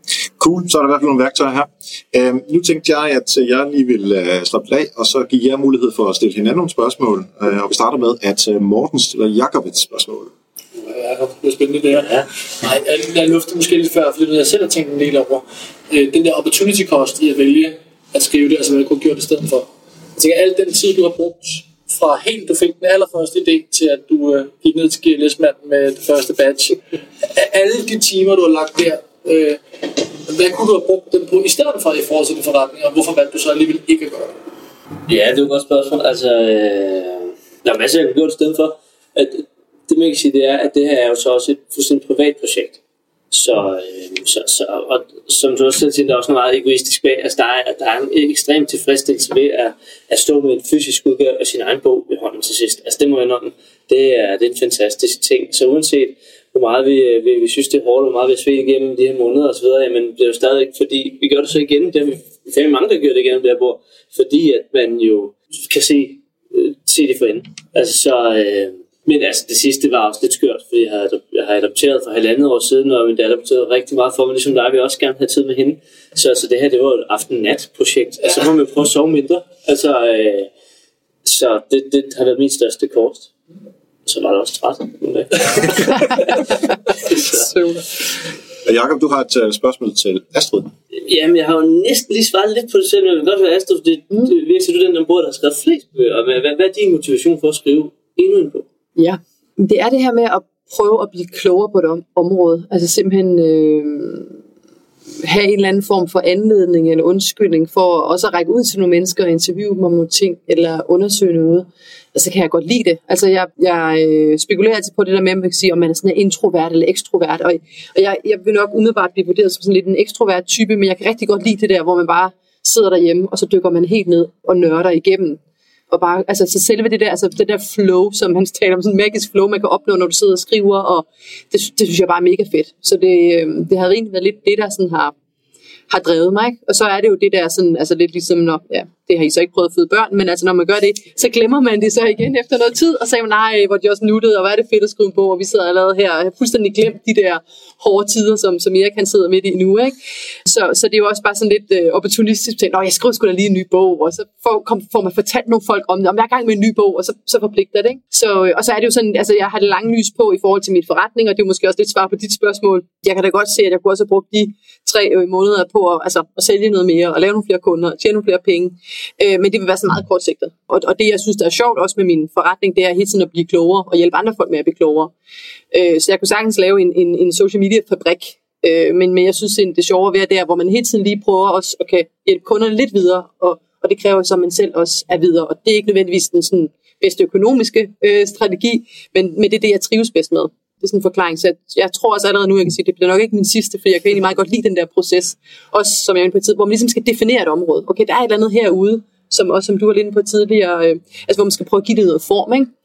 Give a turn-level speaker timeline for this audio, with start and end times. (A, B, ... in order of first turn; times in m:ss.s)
0:00.4-0:10.3 A
0:10.8-0:34.4 B
0:11.9-0:12.2 C
0:35.1-0:42.8 C
0:43.3-1:20.5 C
1:21.2-1:23.3 C
1:24.1-1:26.5 C
1:25.8-1:27.9 D
1:27.1-1:27.4 C
1:28.6-1:30.7 A
1:30.9-1:38.7 C
1:39.0-1:44.4 D
1:45.2-2:15.1 D
2:15.9-2:29.9 D
2:30.5-2:55.1 D
2:55.7-3:22.7 D